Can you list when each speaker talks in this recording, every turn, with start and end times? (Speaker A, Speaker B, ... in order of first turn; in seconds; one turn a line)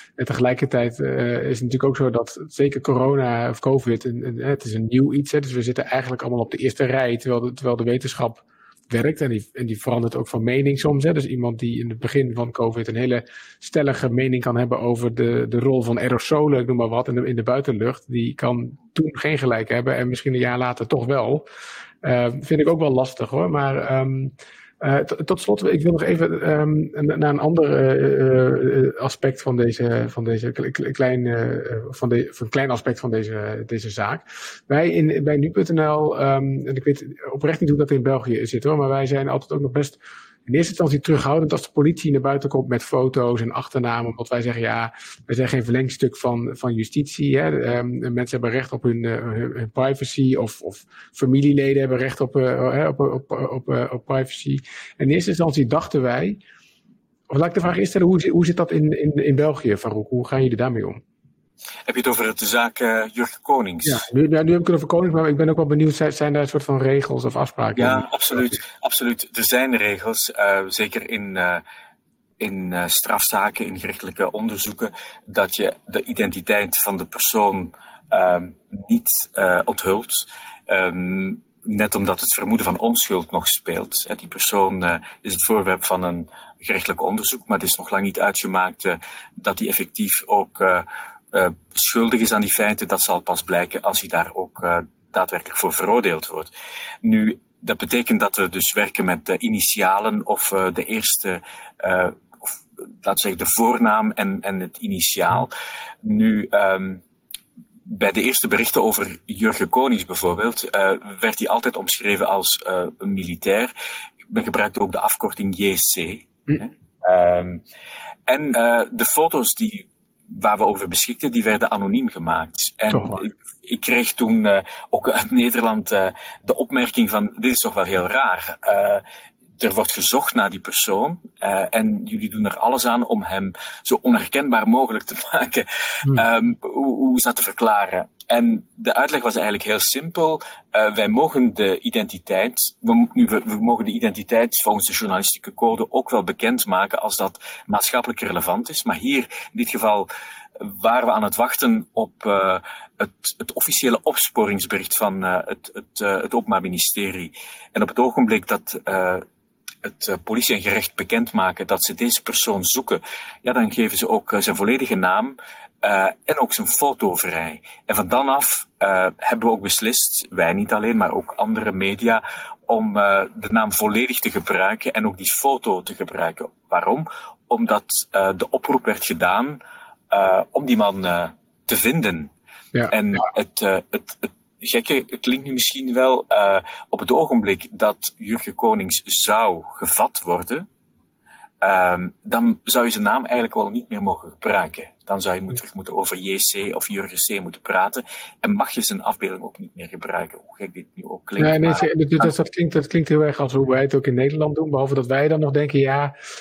Speaker A: 0.2-21.4
Speaker A: 22.0-56.4
Speaker A: 57.3-61.0
Speaker B: 61.9-64.0
Speaker A: 63.8-68.6
Speaker B: 67.8-71.6
Speaker B: 72.4-96.5
Speaker B: 97.0-107.0
Speaker B: 107.8-113.7
Speaker B: 114.3-117.6
Speaker B: 118.3-129.0
Speaker A: 122.9-123.2
Speaker B: 129.6-159.2
Speaker B: 159.8-179.6
Speaker B: 180.1-182.3
Speaker A: 182.7-183.2
Speaker B: 182.9-190.7
Speaker B: 191.6-202.3
Speaker A: 201.4-206.1